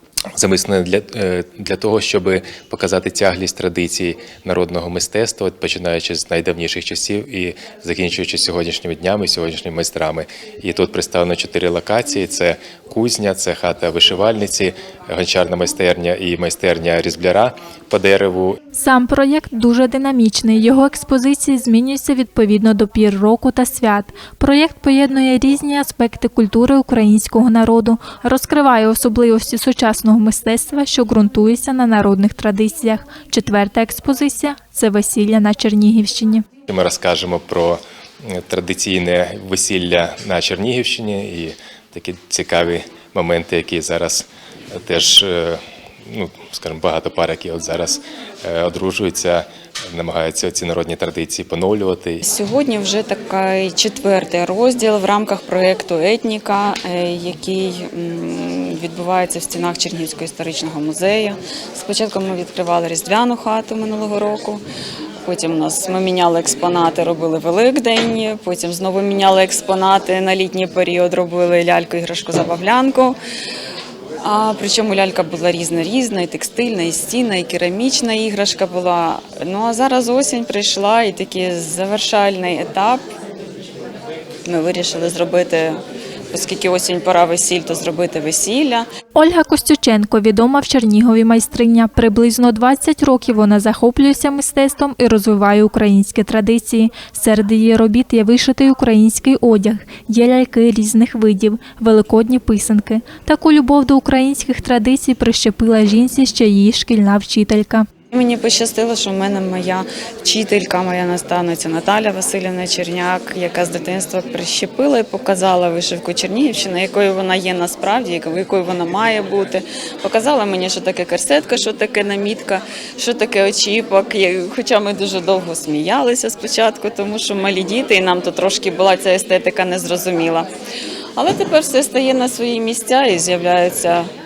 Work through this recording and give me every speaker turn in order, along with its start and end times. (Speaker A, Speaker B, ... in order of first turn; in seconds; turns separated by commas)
Speaker A: 0.3-18.6, Speaker B: 18.7-36.5, Speaker A: 36.7-52.2, Speaker C: 52.2-64.6, Speaker C: 65.2-73.2, Speaker C: 74.2-83.0, Speaker C: 84.5-85.8, Speaker C: 86.3-88.9, Speaker B: 89.2-107.9, Speaker C: 108.1-130.5, Speaker C: 131.2-134.1